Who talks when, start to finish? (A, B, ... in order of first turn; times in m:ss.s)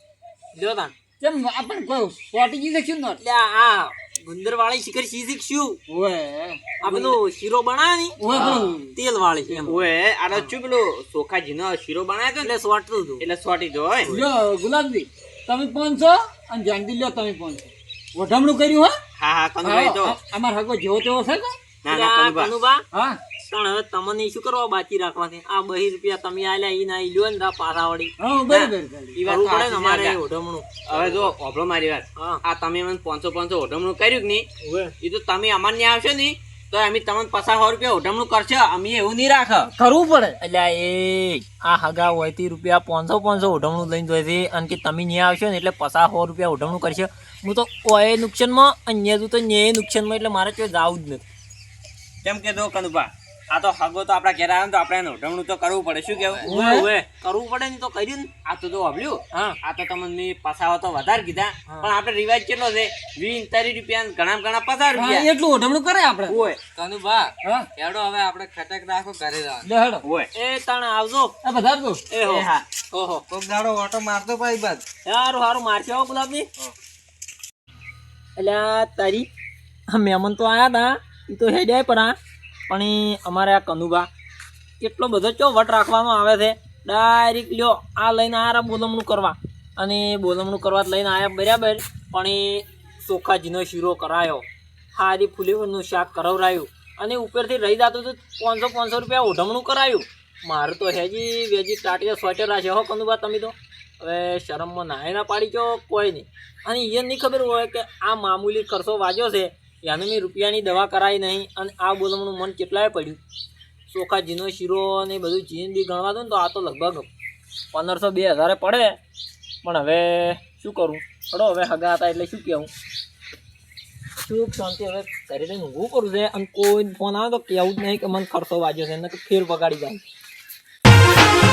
0:00.5-0:00.9 A
0:01.2-0:03.2 B
0:03.2-0:05.8 A
0:05.9-0:07.1 B
0:06.8-0:09.8 A
0:08.2-0:09.0 B
0:08.3-0:08.6 C
0:09.6-0:12.5 C
0:12.4-0:13.3 A
0:13.2-0:14.2 C
0:14.1-0:19.0 B
0:19.2-0:20.2 C
0:19.6-0:21.6 B
0:21.8-0:22.5 C
0:21.9-0:22.8 A
0:22.9-0:23.2 B
0:23.4-0:28.1 A
0:28.2-0:29.2 B
0:28.5-0:30.2 C
0:29.2-0:31.3 A
0:30.9-0:34.5 C
0:32.2-0:32.4 A
0:34.6-0:34.9 A
0:35.0-0:39.7 C
0:39.8-0:40.4 B
0:40.4-0:51.2 A
0:52.2-0:56.4 C
0:56.4-0:56.9 B
0:56.4-0:58.3 A
0:58.4-1:05.3 C
0:59.3-0:59.6 A
1:04.9-1:06.4 B
1:06.3-1:06.6 C
1:06.8-1:09.7 D
1:09.6-1:10.0 B
1:10.0-1:10.3 C
1:10.4-1:11.4 A
1:11.4-1:12.0 B
1:12.1-1:13.2 A
1:12.2-1:12.6 C
1:13.3-1:14.8 D
1:15.0-1:16.5 A
1:18.4-1:19.3 A
1:19.9-1:22.2 A
1:22.7-1:24.1 A
1:24.8-1:53.2 A
1:53.9-1:57.1 A
1:57.7-1:59.0 A
1:59.6-2:02.7 A
2:04.2-2:10.0 A